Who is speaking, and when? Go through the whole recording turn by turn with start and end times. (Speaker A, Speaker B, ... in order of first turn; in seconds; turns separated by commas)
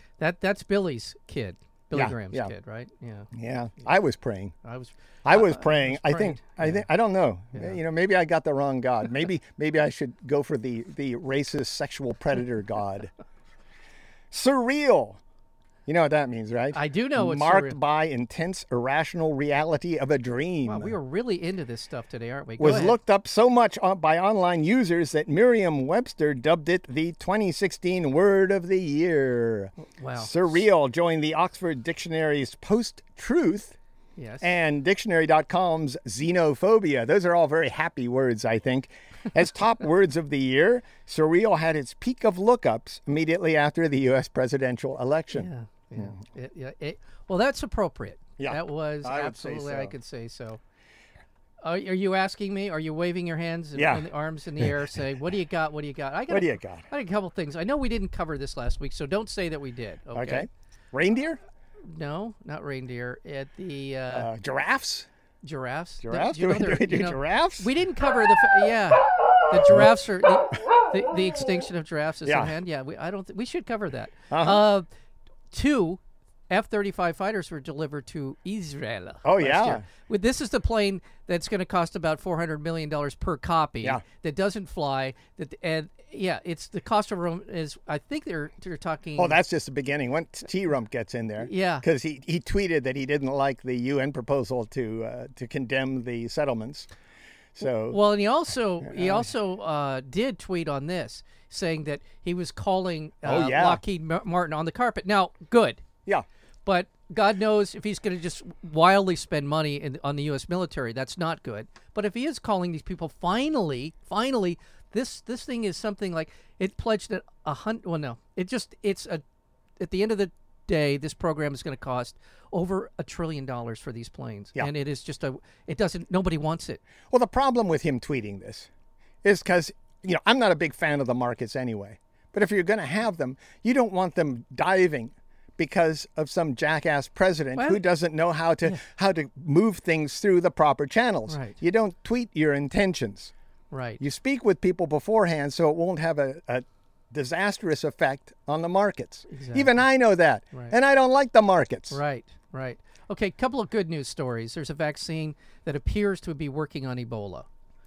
Speaker A: 0.2-3.3, Speaker B: 1.9-2.5, Speaker B: 3.3-4.5, Speaker A: 4.6-6.8, Speaker B: 5.2-13.1, Speaker B: 14.3-15.2, Speaker B: 15.8-20.9, Speaker A: 16.7-17.8, Speaker A: 20.6-23.0, Speaker B: 22.6-33.8, Speaker A: 29.8-30.6, Speaker A: 34.1-34.5, Speaker B: 34.4-45.5, Speaker A: 45.3-50.6, Speaker B: 48.4-49.9, Speaker A: 51.6-60.5, Speaker B: 53.7-54.1, Speaker B: 56.3-56.8, Speaker B: 60.1-61.4, Speaker A: 61.9-64.3, Speaker B: 64.1-65.1, Speaker A: 65.4-74.8, Speaker B: 66.0-67.7, Speaker B: 72.2-72.5, Speaker B: 74.3-74.6, Speaker A: 75.5-89.4, Speaker B: 79.2-79.8, Speaker B: 89.2-96.9, Speaker A: 91.4-91.8, Speaker B: 97.5-98.0, Speaker A: 97.9-105.8, Speaker B: 98.8-99.3, Speaker B: 103.2-103.8, Speaker A: 106.7-119.2, Speaker A: 119.8-126.8, Speaker B: 127.1-128.7, Speaker B: 129.2-143.3, Speaker A: 137.5-137.8, Speaker A: 141.3-141.6, Speaker A: 143.7-144.0, Speaker B: 144.0-152.0, Speaker A: 149.3-149.8, Speaker A: 151.9-157.5